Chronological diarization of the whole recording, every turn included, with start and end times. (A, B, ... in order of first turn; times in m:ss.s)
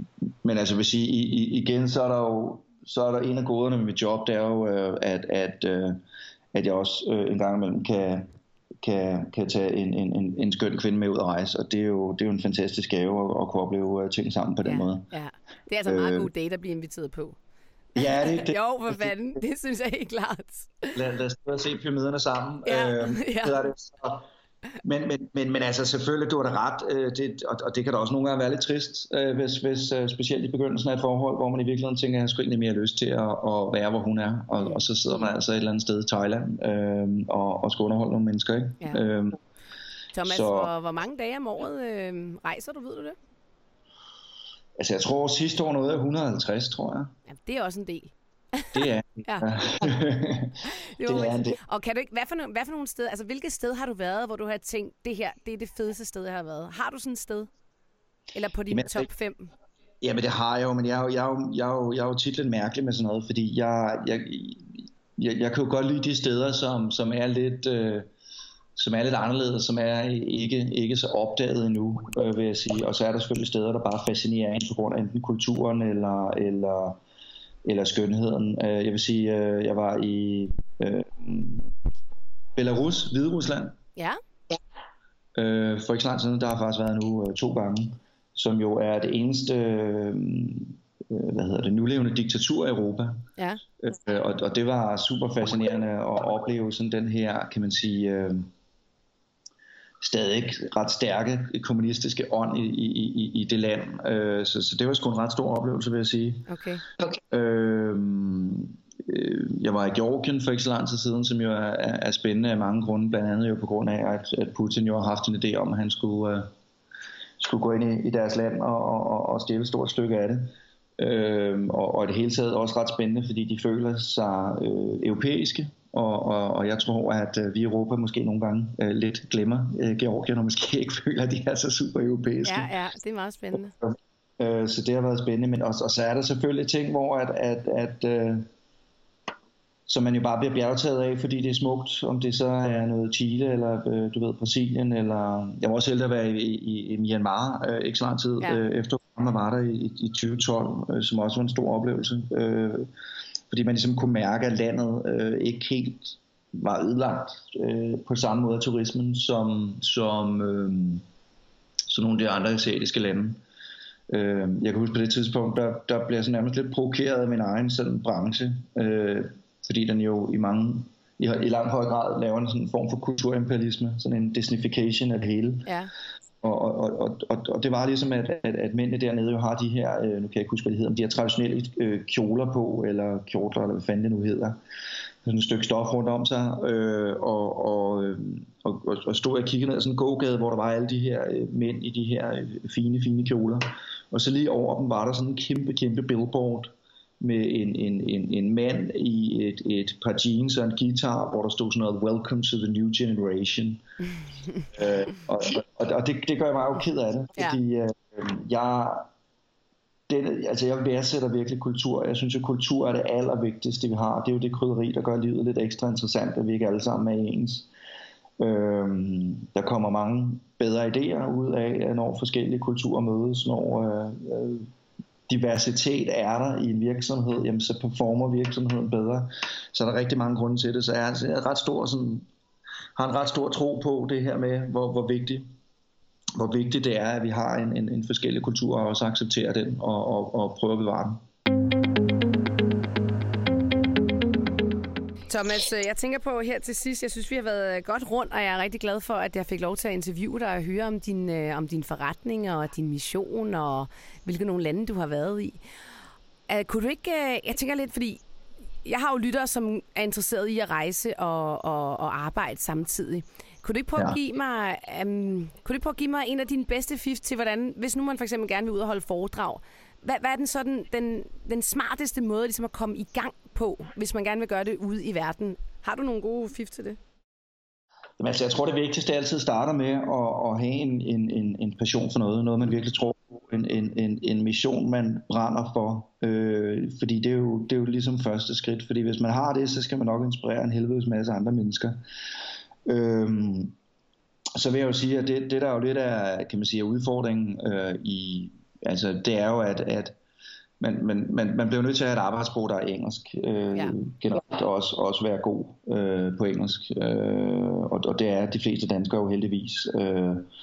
0:00.4-0:06.0 A
0:06.5-0:08.3 A
0:08.8-0:15.1 A
0:14.6-0:17.4 B
0:15.8-0:16.3 A
0:18.0-0:19.0 A
0:18.0-0:21.0 B
0:21.0-0:24.3 A
0:22.7-0:23.7 B
0:24.8-0:39.4 A
0:34.6-0:34.9 B
0:40.1-0:43.2 B
0:40.2-0:40.7 A
0:44.8-0:47.1 A
0:47.3-0:49.5 B
0:48.7-0:51.6 A
0:50.6-0:57.5 B
0:58.3-0:59.5 B
0:58.7-0:59.1 A
1:00.0-1:08.1 A
1:08.8-1:17.0 A
1:17.6-1:21.7 A
1:22.6-1:23.8 A
1:25.4-1:33.3 A
1:33.4-1:33.6 B
1:33.8-1:38.5 A
1:40.0-1:46.5 A
1:46.5-1:46.8 B
1:47.0-1:56.5 A
1:57.4-2:12.7 A
2:12.4-2:13.7 B
2:13.8-2:18.5 A
2:19.9-2:32.9 A
2:33.5-2:41.0 A
2:41.9-2:43.4 A
2:44.1-2:55.7 A
2:55.7-2:55.9 B
2:56.4-3:04.6 A
3:05.2-3:23.8 A
3:24.7-3:29.1 A
3:30.1-3:37.7 A
3:38.4-3:44.7 A
3:45.3-3:52.3 A
3:53.0-3:55.5 A
3:56.4-4:01.2 A
4:05.3-4:15.6 B
4:16.5-4:18.2 B
4:18.8-4:37.0 B
4:38.2-4:52.0 A
4:52.9-4:53.8 A
4:54.6-5:00.2 A
5:00.8-5:10.5 A